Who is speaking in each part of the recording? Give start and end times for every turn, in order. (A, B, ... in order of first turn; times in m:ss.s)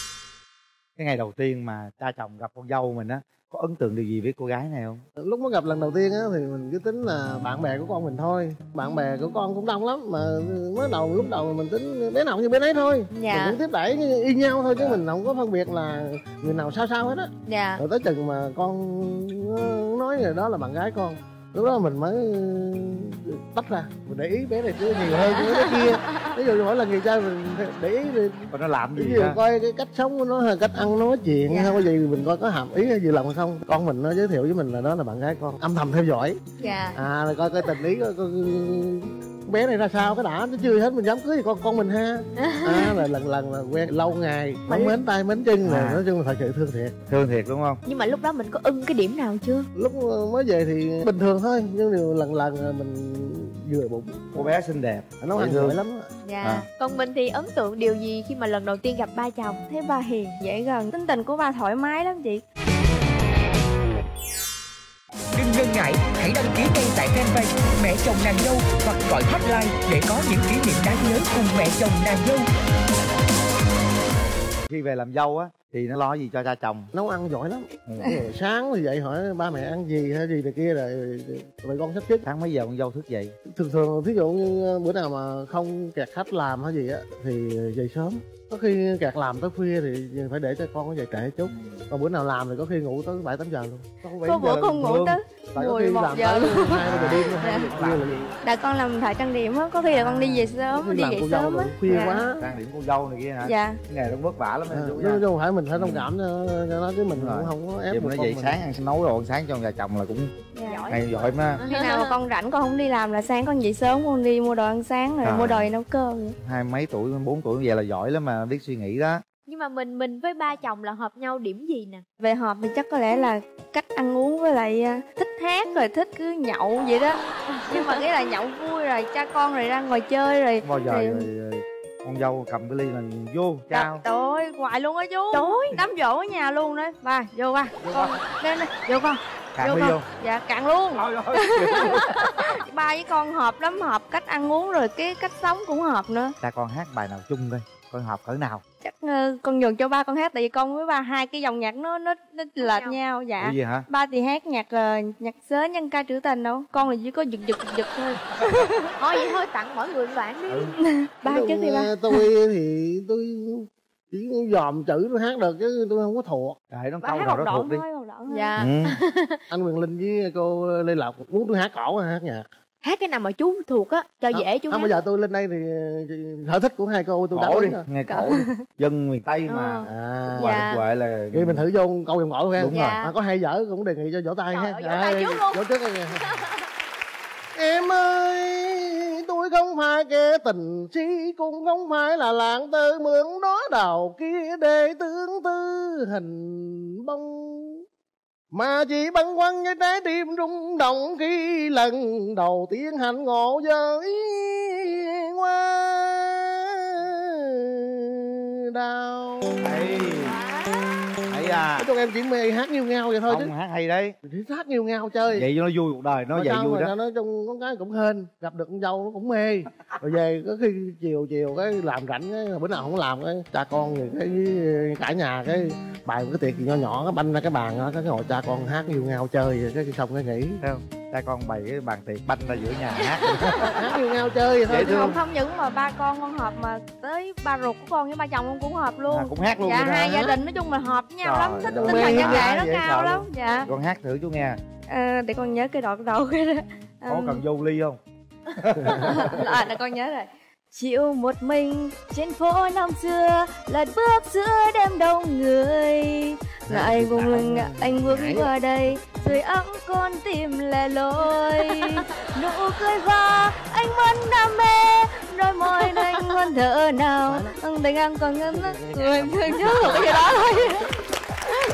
0:01.0-0:05.0 A
0:05.2-0:36.4 B
0:13.1-0:13.6 C
0:14.7-0:15.0 A
0:17.5-0:17.8 C
0:25.1-0:26.4 C
0:28.5-0:29.4 A
0:31.5-0:31.9 C
0:36.6-0:37.0 C
0:37.0-0:47.0 B
0:42.4-0:43.0 C
0:44.7-0:45.0 C
0:45.6-0:46.0 A
0:47.1-0:47.8 A
0:47.9-0:49.7 C
0:49.8-0:54.5 B
0:54.3-0:55.8 A
0:55.2-0:56.1 B
0:56.2-0:59.6 C
0:59.7-1:02.4 D
1:05.3-1:12.5 E
1:14.7-1:16.9 A
1:16.9-1:22.2 B
1:17.9-1:18.1 A
1:22.2-1:23.4 A
1:23.5-1:34.5 B
1:31.5-1:31.8 A
1:34.2-1:37.7 D
1:34.4-1:35.2 A
1:35.6-1:38.2 B
1:36.8-1:38.3 A
1:38.4-1:42.2 D
1:40.1-1:40.5 A
1:40.7-1:42.5 B
1:42.4-1:46.1 A
1:43.4-1:43.8 D
1:44.7-1:48.6 B
1:47.1-1:50.3 A
1:50.6-1:50.9 D
1:50.6-1:52.2 C
1:50.9-1:51.6 A
1:51.6-1:56.4 D
1:55.2-1:55.7 A
1:56.4-1:59.2 A
1:59.5-2:02.0 C
2:02.2-2:11.3 D
2:07.7-2:08.0 C
2:10.6-2:14.0 A
2:13.7-2:26.4 D
2:15.3-2:15.8 C
2:17.9-2:18.2 A
2:19.6-2:20.1 A
2:21.0-2:22.6 A
2:26.4-2:28.6 A
2:28.8-2:38.9 D
2:32.6-2:33.0 C
2:33.4-2:33.9 A
2:39.0-2:40.7 C
2:40.8-2:42.2 D
2:41.2-2:46.6 B
2:46.7-2:47.8 A
2:47.0-2:48.5 D
2:48.3-2:49.4 C
2:48.6-2:49.0 A
2:49.5-2:52.5 B
2:52.8-2:55.0 C
2:54.3-2:57.9 B
2:57.3-2:59.9 A
2:58.3-2:58.6 D
2:59.5-3:00.8 C
2:59.9-3:00.6 B
3:00.4-3:01.6 A
3:01.3-3:06.2 B
3:02.6-3:03.0 A
3:02.7-3:03.1 C
3:04.5-3:06.5 C
3:07.6-3:17.8 B
3:18.5-3:29.8 B
3:29.6-3:30.4 A
3:30.2-3:30.8 C
3:31.3-3:31.9 A
3:31.8-3:33.5 B
3:33.3-3:34.2 A
3:34.2-3:35.5 B
3:35.3-3:36.9 A
3:36.3-3:50.6 B
3:50.6-3:53.8 A
3:53.6-3:55.2 B
3:54.7-3:55.2 A
3:54.9-4:03.7 D
3:59.1-4:00.2 A
4:01.2-4:04.6 A
4:01.7-4:02.5 B
4:04.9-4:07.4 D
4:07.1-4:08.0 A
4:08.5-4:09.4 A
4:08.9-4:30.9 D
4:16.7-4:18.5 B
4:27.3-4:27.6 B
4:28.5-4:30.5 B